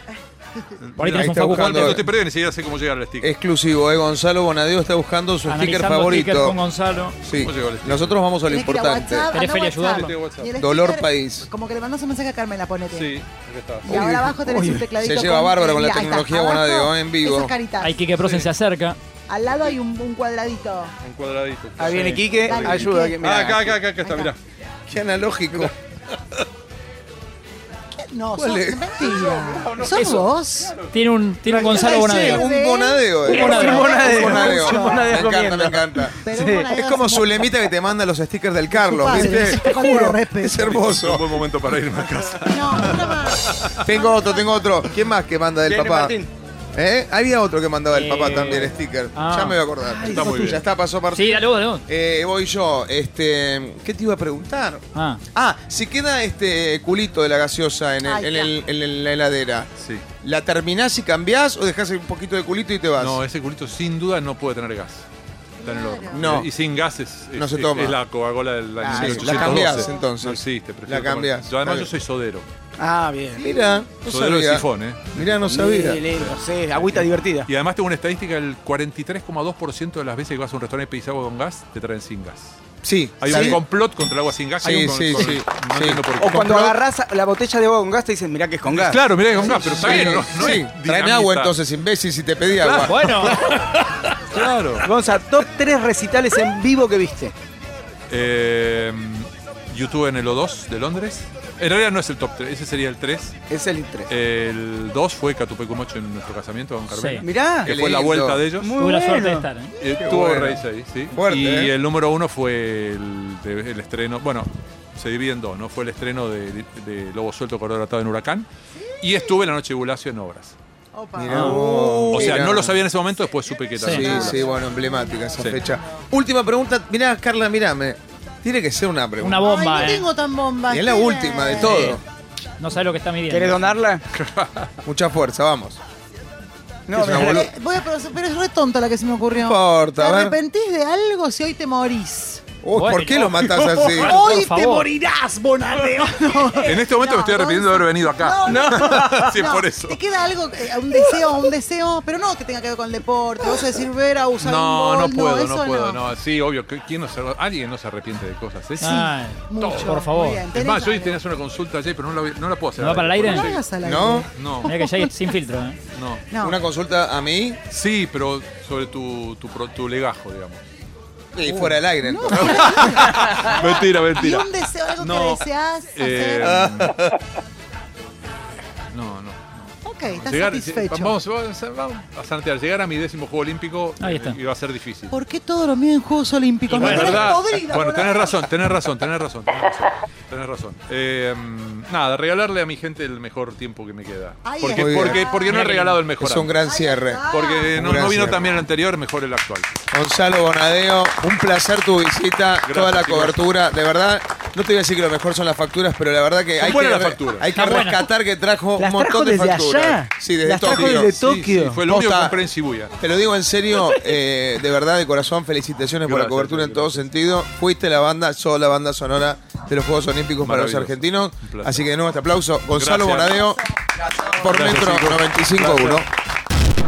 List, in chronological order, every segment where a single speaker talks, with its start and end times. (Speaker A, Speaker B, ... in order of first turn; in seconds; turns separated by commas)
Speaker A: 0.8-3.3, Speaker B: 1.0-2.0, Speaker C: 1.0-2.0, Speaker C: 3.2-6.6, Speaker B: 5.5-7.2, Speaker C: 7.2-9.3, Speaker A: 7.3-8.2, Speaker D: 8.5-13.1, Speaker B: 9.3-10.1, Speaker A: 9.8-10.5, Speaker C: 10.6-11.5, Speaker A: 12.9-13.9, Speaker D: 13.8-18.0, Speaker E: 13.9-14.9, Speaker C: 13.9-14.3, Speaker C: 15.0-17.5, Speaker B: 17.8-19.0, Speaker A: 18.2-18.5, Speaker D: 19.3-20.9, Speaker A: 21.0-24.4, Speaker E: 21.8-23.8, Speaker D: 22.4-23.3, Speaker D: 23.9-24.3, Speaker C: 24.9-25.7, Speaker D: 27.9-30.8, Speaker C: 28.3-29.0, Speaker A: 29.0-30.9, Speaker B: 29.9-32.5, Speaker D: 31.5-35.3, Speaker C: 31.5-36.2, Speaker B: 33.2-33.9, Speaker E: 33.3-36.7, Speaker D: 36.2-37.5, Speaker C: 36.7-41.4, Speaker D: 38.7-40.7, Speaker B: 39.1-39.4, Speaker A: 40.6-43.8, Speaker D: 42.4-44.8, Speaker C: 43.8-46.1, Speaker E: 45.6-46.3, Speaker C: 46.7-59.7, Speaker B: 47.9-49.6, Speaker E: 49.8-50.6, Speaker A: 50.0-50.6, Speaker B: 51.1-51.8, Speaker B: 54.9-55.2, Speaker D: 58.0-58.5, Speaker A: 59.8-60.0, Speaker C: 60.2-63.2, Speaker A: 63.0-65.1, Speaker D: 65.6-66.3, Speaker A: 65.6-72.5, Speaker C: 66.1-66.5, Speaker C: 67.3-68.0, Speaker E: 68.8-69.4, Speaker C: 68.9-71.9, Speaker D: 69.2-70.1, Speaker E: 72.8-73.4, Speaker D: 73.4-73.8, Speaker C: 73.4-76.0, Speaker A: 74.0-75.5, Speaker E: 75.4-77.5, Speaker A: 76.0-82.6, Speaker C: 82.8-83.6, Speaker A: 83.2-86.7, Speaker C: 84.6-86.5, Speaker B: 84.7-85.2, Speaker E: 86.2-90.2, Speaker A: 88.6-91.5, Speaker C: 89.4-93.5, Speaker A: 92.6-93.5, Speaker B: 92.8-93.4, Speaker A: 94.3-94.9, Speaker E: 94.8-97.3, Speaker A: 98.1-103.3, Speaker E: 103.5-104.1, Speaker A: 104.1-108.7, Speaker B: 106.9-107.2, Speaker E: 107.2-107.7, Speaker C: 107.6-108.5, Speaker E: 108.6-109.5, Speaker B: 108.8-109.7, Speaker A: 109.8-118.5, Speaker C: 109.9-111.7, Speaker D: 118.8-119.3, Speaker A: 119.0-120.5, Speaker D: 120.9-122.5, Speaker C: 121.2-122.8, Speaker B: 121.3-121.6, Speaker A: 122.1-124.4, Speaker B: 123.8-124.1, Speaker C: 123.8-129.5, Speaker D: 123.8-126.0, Speaker B: 129.2-130.1, Speaker D: 129.4-132.0, Speaker C: 130.7-132.0, Speaker E: 131.6-132.0, Speaker B: 132.6-133.7, Speaker E: 133.3-134.0, Speaker A: 134.1-134.8, Speaker C: 134.8-135.8, Speaker E: 136.9-137.4, Speaker C: 136.9-137.5, Speaker D: 137.1-142.4, Speaker C: 139.3-140.4, Speaker C: 142.6-144.2, Speaker B: 142.7-143.2, Speaker B: 143.8-144.9, Speaker D: 143.9-156.0, Speaker A: 146.6-150.0, Speaker E: 148.4-149.3, Speaker A: 154.4-159.0, Speaker D: 158.8-161.2, Speaker B: 158.8-160.5, Speaker A: 159.5-160.0, Speaker A: 160.5-163.6, Speaker B: 162.8-163.5, Speaker D: 163.2-165.1, Speaker C: 163.8-164.3, Speaker A: 164.3-164.8, Speaker B: 164.6-165.8, Speaker A: 165.9-166.2, Speaker D: 166.3-166.6, Speaker C: 166.4-167.6, Speaker A: 167.7-170.6, Speaker C: 171.3-173.0, Speaker D: 172.0-176.7, Speaker A: 172.3-177.1, Speaker C: 176.4-177.2, Speaker A: 178.9-185.2, Speaker D: 179.8-181.2, Speaker B: 184.0-184.4, Speaker D: 185.1-188.5, Speaker B: 186.7-187.4, Speaker A: 186.7-196.6, Speaker D: 194.4-195.6, Speaker C: 194.7-195.3, Speaker B: 195.5-196.0, Speaker C: 196.2-198.6, Speaker D: 196.6-198.0, Speaker A: 197.3-199.8, Speaker C: 199.9-211.1, Speaker A: 202.6-203.4, Speaker A: 206.6-207.5, Speaker B: 207.5-208.1, Speaker E: 208.8-212.0, Speaker A: 210.6-212.9, Speaker C: 211.9-212.3, Speaker C: 213.0-223.6, Speaker A: 216.0-217.1, Speaker A: 220.4-221.9, Speaker A: 222.7-223.5, Speaker C: 224.2-226.1, Speaker A: 224.3-226.0